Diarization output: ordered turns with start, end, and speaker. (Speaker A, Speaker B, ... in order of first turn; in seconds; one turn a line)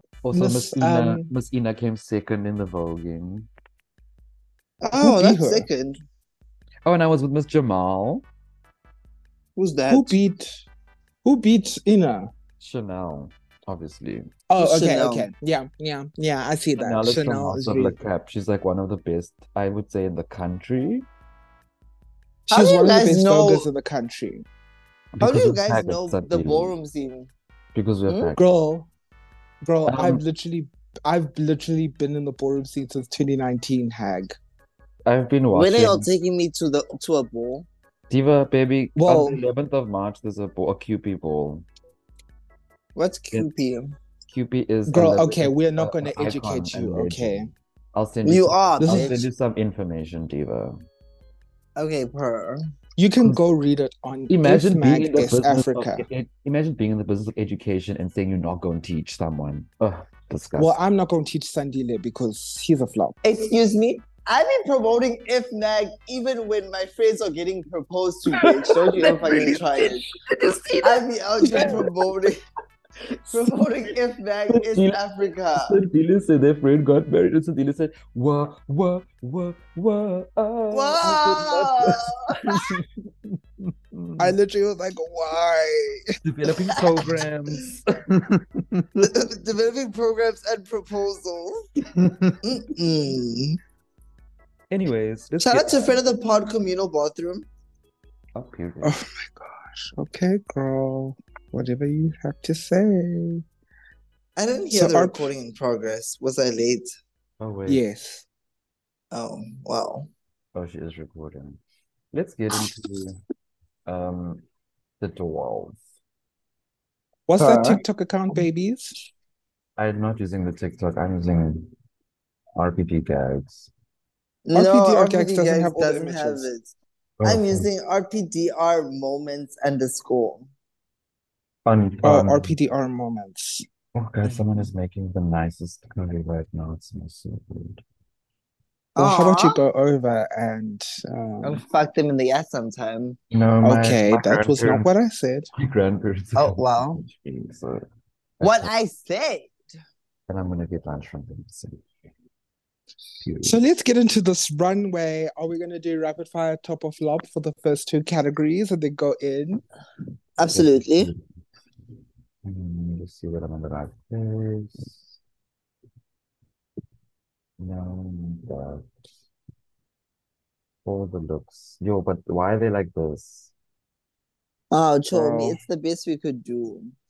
Speaker A: 0.2-3.5
Speaker B: 0.3-1.3
Speaker C: 4.8-6.0
Speaker B: 4.9-5.7
Speaker A: 6.8-8.2
Speaker C: 9.6-10.2
Speaker B: 9.9-10.6
Speaker B: 11.2-12.3
Speaker A: 12.6-14.3
Speaker B: 14.5-18.0
Speaker C: 14.6-15.3
Speaker A: 16.8-21.1
Speaker B: 22.5-24.4
Speaker C: 22.5-23.7
Speaker A: 25.2-26.8
Speaker C: 25.2-27.3
Speaker A: 27.7-28.4
Speaker B: 28.4-28.9
Speaker B: 29.6-34.4
Speaker A: 29.9-30.2
Speaker A: 35.1-36.1
Speaker C: 35.5-37.7
Speaker A: 38.1-41.7
Speaker B: 39.0-39.4
Speaker C: 43.0-44.0
Speaker A: 44.3-50.8
Speaker B: 44.9-47.5
Speaker C: 48.2-49.1
Speaker B: 48.8-49.2
Speaker C: 51.8-52.6
Speaker B: 53.0-56.1
Speaker A: 54.3-60.8
Speaker B: 60.6-63.2
Speaker C: 63.2-70.0
Speaker A: 68.4-72.1
Speaker C: 70.8-72.4
Speaker C: 73.3-75.8
Speaker A: 74.5-75.0
Speaker A: 75.5-84.3
Speaker C: 80.7-82.5
Speaker B: 84.2-86.2
Speaker A: 86.2-89.1
Speaker C: 89.0-91.6
Speaker A: 91.9-92.4
Speaker C: 92.4-93.6
Speaker A: 94.7-95.9
Speaker C: 95.4-97.5
Speaker A: 98.3-99.0
Speaker B: 98.8-103.4
Speaker C: 104.4-106.9
Speaker B: 104.7-105.3
Speaker A: 107.4-107.8
Speaker B: 107.7-108.3
Speaker C: 109.1-110.1
Speaker A: 110.5-111.6
Speaker A: 112.1-113.2
Speaker A: 113.9-114.4
Speaker A: 115.0-115.8
Speaker B: 117.3-119.0
Speaker C: 117.4-117.8
Speaker A: 119.8-121.7
Speaker A: 122.6-123.7
Speaker C: 124.5-130.5
Speaker B: 124.5-126.5
Speaker A: 127.2-127.7
Speaker A: 131.7-132.5
Speaker B: 132.0-133.7
Speaker A: 133.9-137.8
Speaker C: 139.0-139.6
Speaker B: 139.0-141.6
Speaker C: 141.4-143.2
Speaker A: 143.3-144.9
Speaker B: 143.6-145.5
Speaker A: 145.6-147.8
Speaker C: 146.4-147.1
Speaker A: 148.4-148.7
Speaker C: 148.4-149.5
Speaker A: 150.3-151.8
Speaker A: 153.2-153.6
Speaker B: 153.4-159.6
Speaker C: 160.4-161.1
Speaker A: 160.5-161.2
Speaker A: 162.4-165.0
Speaker A: 167.6-168.8
Speaker A: 170.8-173.5
Speaker C: 174.7-176.9
Speaker B: 175.1-175.6